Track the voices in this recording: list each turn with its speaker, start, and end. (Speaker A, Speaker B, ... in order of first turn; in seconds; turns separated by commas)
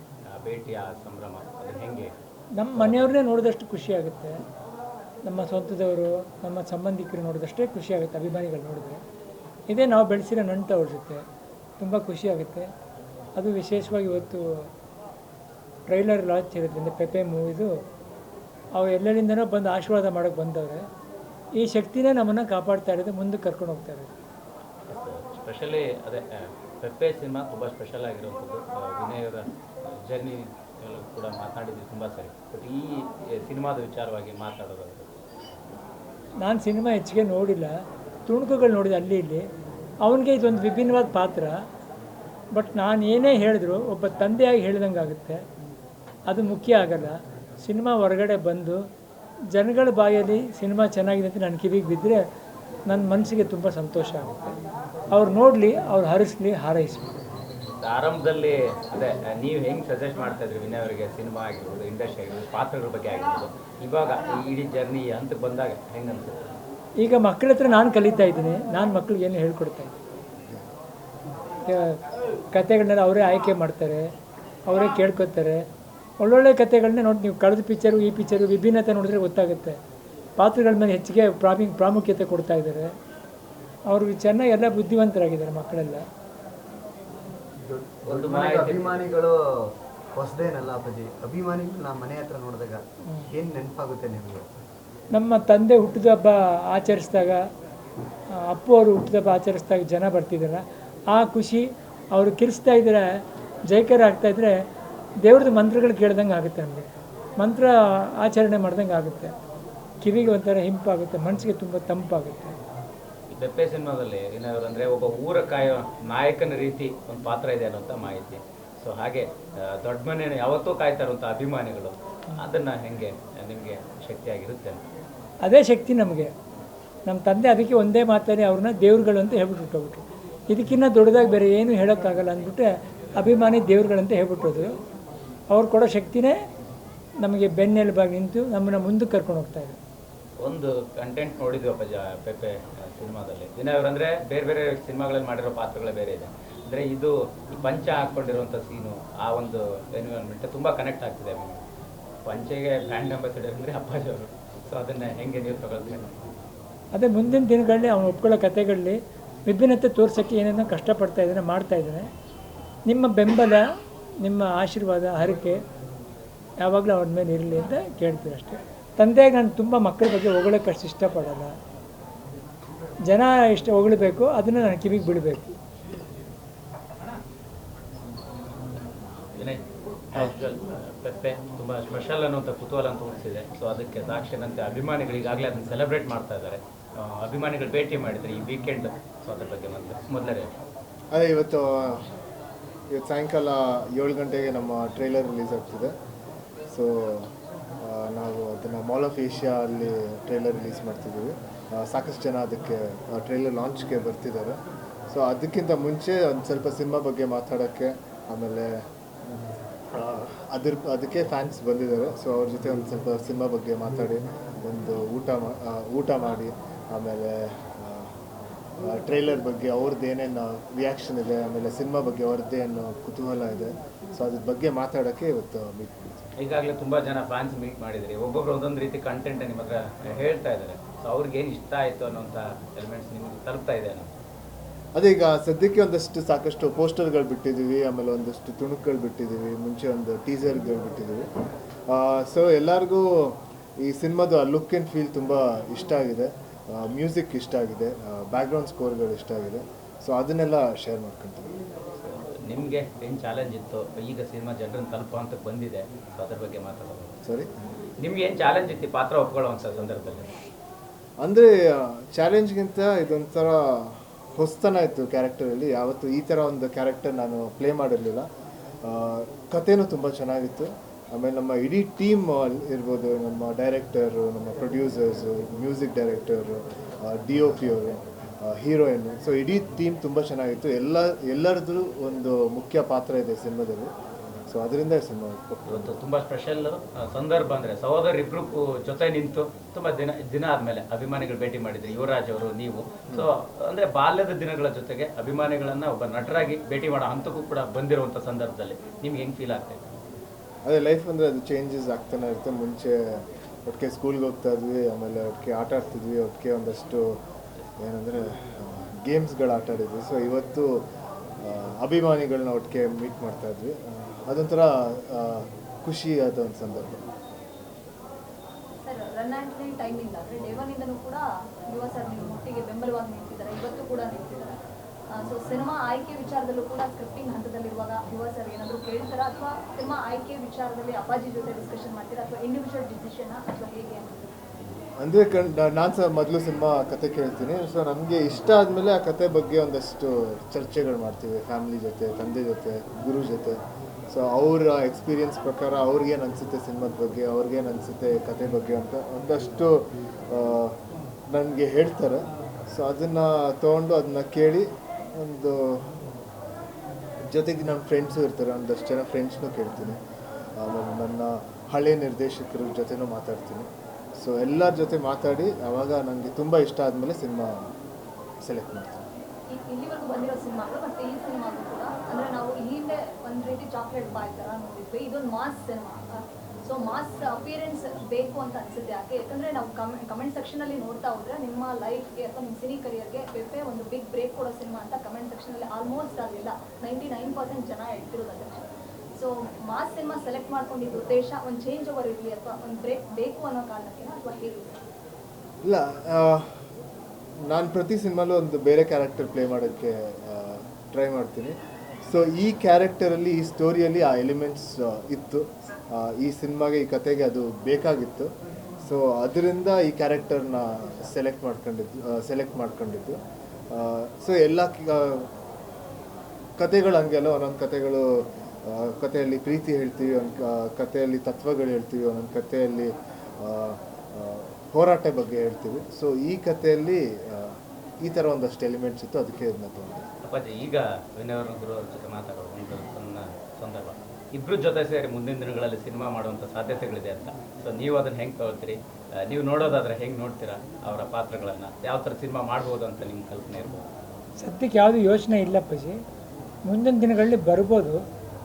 Speaker A: 0.3-2.1, Speaker B: 2.6-4.3, Speaker A: 2.8-3.1, Speaker B: 5.2-9.0, Speaker B: 9.7-11.2, Speaker B: 11.8-12.7, Speaker B: 13.4-14.4, Speaker B: 15.9-17.7, Speaker B: 18.8-20.8, Speaker B: 21.6-24.1, Speaker A: 24.9-35.1, Speaker B: 36.4-37.7, Speaker B: 38.3-39.4, Speaker B: 40.0-41.5, Speaker B: 42.5-45.4, Speaker B: 46.3-48.8, Speaker B: 49.5-52.2, Speaker B: 52.9-54.5, Speaker B: 55.1-57.1, Speaker A: 57.8-66.4, Speaker B: 67.0-69.9, Speaker B: 71.7-72.0, Speaker B: 72.5-74.0, Speaker B: 74.7-75.6, Speaker B: 76.2-79.8, Speaker B: 80.4-82.9, Speaker B: 83.9-86.0, Speaker C: 87.6-89.3, Speaker A: 88.0-89.1, Speaker C: 90.2-92.8, Speaker C: 93.3-94.4, Speaker B: 95.1-97.4, Speaker B: 98.5-100.6, Speaker B: 101.1-103.0, Speaker B: 103.7-104.5, Speaker B: 105.2-106.8, Speaker B: 107.4-107.7, Speaker B: 108.2-109.3, Speaker B: 110.0-112.5, Speaker A: 113.3-124.8, Speaker B: 125.4-126.3, Speaker B: 127.1-132.7, Speaker B: 133.2-134.7, Speaker B: 135.5-136.3, Speaker B: 137.2-139.8, Speaker A: 140.4-151.6, Speaker A: 152.2-156.2, Speaker B: 156.9-162.1, Speaker B: 162.9-163.6, Speaker B: 164.2-165.6, Speaker B: 166.6-171.5, Speaker B: 173.1-175.5, Speaker A: 179.3-190.5, Speaker D: 191.1-192.1, Speaker D: 192.9-195.9, Speaker D: 196.7-208.8, Speaker D: 209.9-218.1, Speaker D: 218.8-226.3, Speaker A: 226.4-234.1, Speaker D: 234.9-241.3, Speaker D: 241.9-251.5, Speaker A: 252.0-257.2, Speaker A: 258.0-260.3, Speaker D: 261.2-268.2, Speaker D: 268.8-283.9, Speaker D: 284.5-285.9, Speaker A: 285.7-299.9, Speaker D: 300.6-307.2, Speaker D: 307.8-310.9, Speaker D: 311.4-317.0, Speaker E: 318.8-324.6, Speaker E: 325.2-334.2, Speaker D: 335.0-343.6, Speaker D: 344.1-350.8, Speaker D: 351.3-355.9, Speaker D: 357.2-360.0, Speaker D: 360.6-367.7, Speaker D: 368.4-369.0, Speaker E: 369.5-394.8, Speaker D: 395.6-396.6, Speaker D: 397.4-413.2, Speaker D: 413.7-415.3, Speaker D: 416.6-430.1, Speaker A: 430.2-443.9, Speaker B: 444.4-446.0, Speaker B: 446.7-448.0